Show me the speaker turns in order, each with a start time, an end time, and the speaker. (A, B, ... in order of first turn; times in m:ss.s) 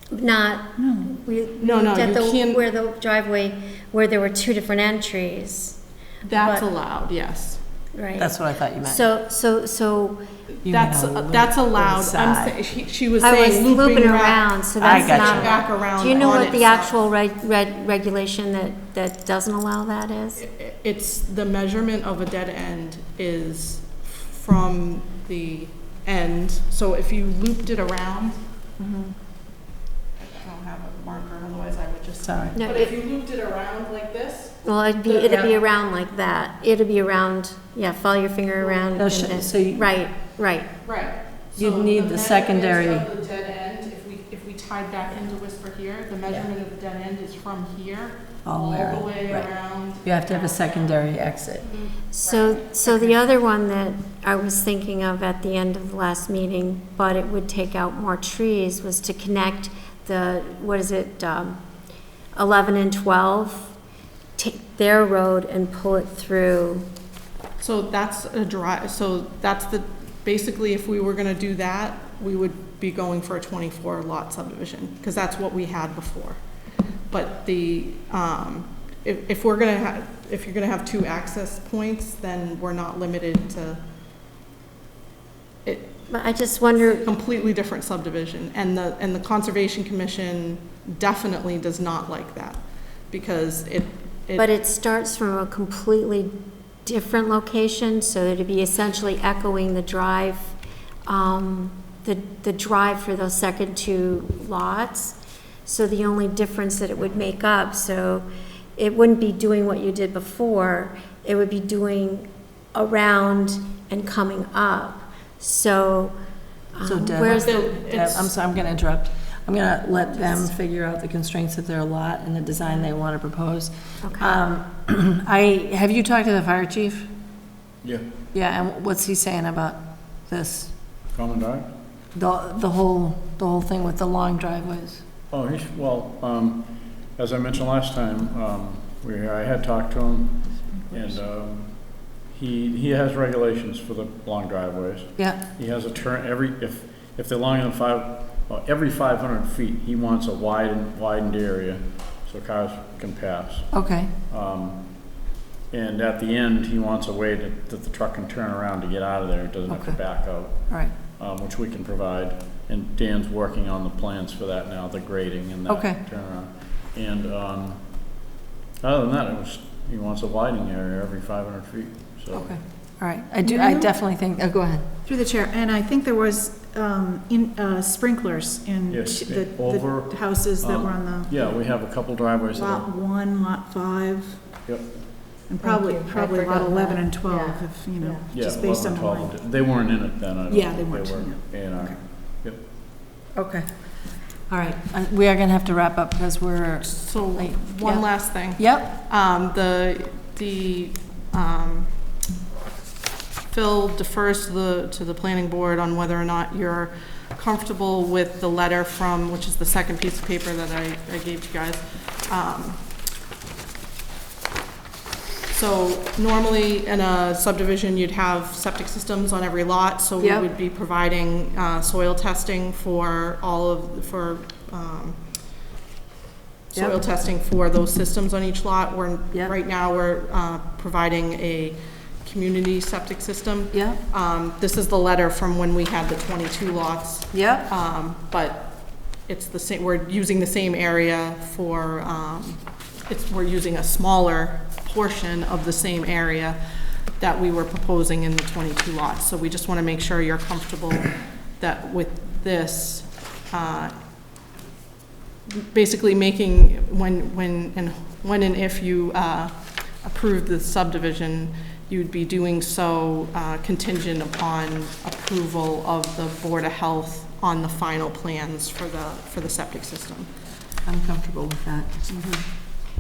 0:00.1-0:05.8 A
0:00.8-0:01.2 B
0:01.6-0:02.7 C
0:06.2-0:07.6 C
0:06.3-0:06.6 A
0:07.9-0:10.2 A
0:08.2-0:09.0 D
0:10.6-0:17.0 C
0:10.6-0:12.6 D
0:13.2-0:20.4 A
0:14.8-0:15.6 D
0:20.4-0:28.4 C
0:30.2-0:35.6 C
0:32.2-0:32.6 D
0:32.5-0:33.0 A
0:34.6-0:40.7 A
0:38.6-0:39.2 C
0:39.0-0:39.9 D
0:40.8-0:51.0 C
0:41.6-0:43.1 D
0:48.4-0:51.7 D
0:51.6-0:53.2 C
0:52.1-1:01.6 A
1:02.4-1:03.7 A
1:04.4-1:06.9 A
1:07.6-1:16.4 C
1:17.1-1:23.8 C
1:25.6-1:26.1 C
1:26.1-1:27.1 A
1:26.8-1:34.5 C
1:34.4-1:36.3 A
1:36.8-1:40.6 A
1:41.1-1:56.2 A
1:56.7-1:57.6 A
1:56.8-2:07.1 D
1:57.3-1:58.4 C
2:00.1-2:00.5 A
2:04.0-2:04.4 A
2:08.3-2:10.7 D
2:11.1-2:11.7 E
2:12.1-2:15.0 D
2:15.3-2:35.1 E
2:20.5-2:21.2 B
2:33.7-2:34.1 D
2:35.7-2:48.1 E
2:39.7-2:40.9 D
2:45.7-2:46.0 D
2:48.8-2:52.6 E
2:52.3-2:54.9 D
2:53.4-2:54.0 B
2:55.0-3:01.4 B
2:58.9-3:02.9 E
3:02.5-3:04.5 B
3:04.7-3:04.9 E
3:05.5-3:09.4 B
3:06.2-3:07.6 D
3:08.3-3:12.6 E
3:10.5-3:12.0 B
3:13.4-3:13.7 D
3:14.5-3:19.0 D
3:16.8-3:21.9 C
3:23.5-3:32.8 C
3:35.5-3:45.2 C
3:40.2-3:40.5 D
3:46.7-4:06.6 C
3:53.7-3:54.0 D
3:57.3-3:57.7 D
4:07.2-4:13.9 C
4:15.5-4:30.3 C
4:30.8-4:32.1 D
4:32.1-4:32.4 B